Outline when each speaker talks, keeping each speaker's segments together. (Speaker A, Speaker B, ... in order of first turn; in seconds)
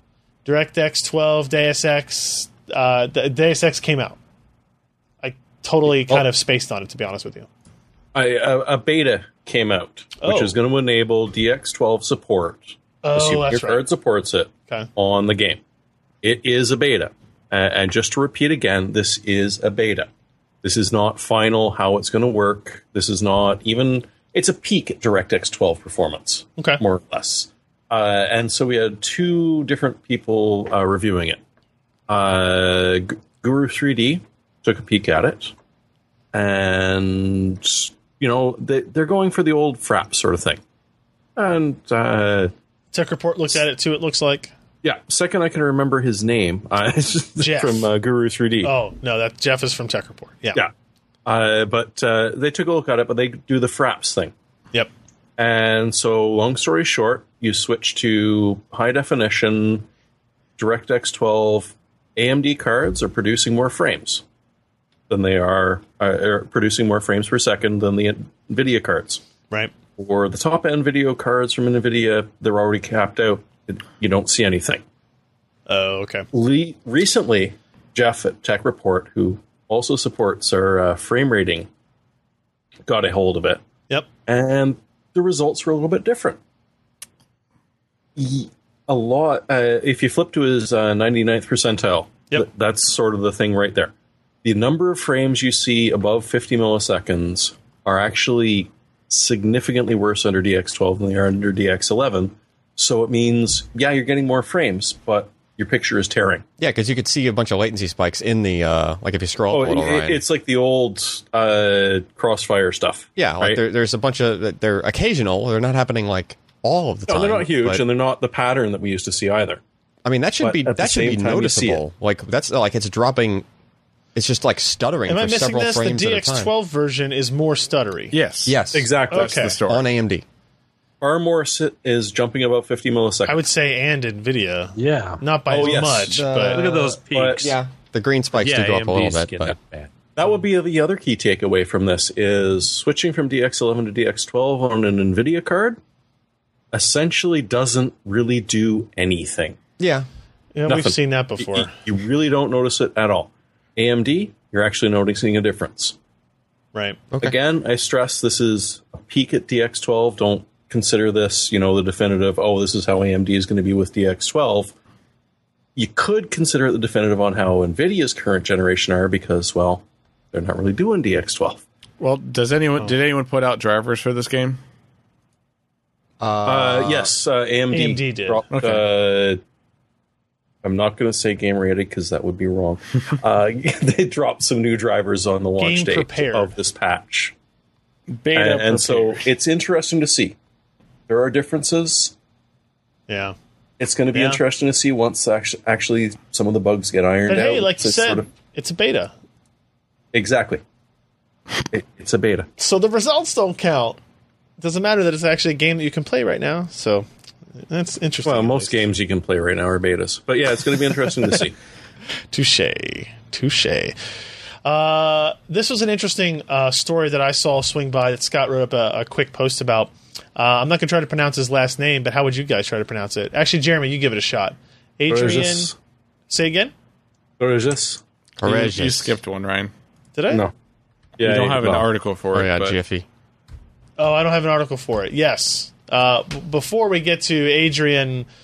Speaker A: 0.4-4.2, 5.2-7.5, 10.2-10.5, 13.0-13.8, 42.9-44.5, 47.4-47.9, 48.6-50.6, 75.7-76.2, 125.1-128.1, 129.1-129.6, 133.2-136.8, 150.5-151.7, 156.7-157.0, 177.7-178.4, 185.6-186.5, 193.1-193.3, 194.1-194.4, 197.3-199.1, 202.6-204.0, 204.6-207.1, 207.7-208.8, 212.3-213.9, 214.6-225.7, 226.3-226.7, 230.1-230.4, 234.0-238.3
Speaker B: 8.1-15.6, 16.2-20.1, 20.6-31.4, 32.1-35.5, 36.3-40.6, 41.4-42.5, 44.8-48.7, 51.2-54.3, 55.4-59.9, 60.6-64.2, 65.1-69.2, 70.0-74.8, 76.3-81.7, 82.8-83.6, 84.3-86.4, 88.2-93.9, 94.4-106.4, 109.5-113.6, 117.1-119.6, 120.4-121.8, 128.7-129.4, 131.0-133.4, 135.5-137.5, 140.1-145.8, 146.7-149.6, 150.7-155.9, 157.2-164.7, 165.8-171.6, 176.4-179.4, 180.6-187.3, 188.3-190.3, 191.1-192.1, 193.8-198.2, 200.1-200.6, 201.7-202.5, 208.2-211.5, 225.1-225.7, 227.4-228.0, 231.2-231.9
Speaker C: 106.6-110.2, 113.2-117.8, 120.0-123.4, 124.1-126.5, 128.5-128.9, 129.7-130.2, 136.1-136.7, 137.4-139.6, 149.8-150.1, 157.1-157.3, 176.2-177.1, 228.4-229.2, 232.3-233.1
Speaker D: 128.1-129.9, 172.0-174.6, 178.5-178.8, 188.1-189.3, 228.4-229.7, 231.2-232.8
Speaker E: 134.8-135.2, 136.5-137.6, 138.3-139.9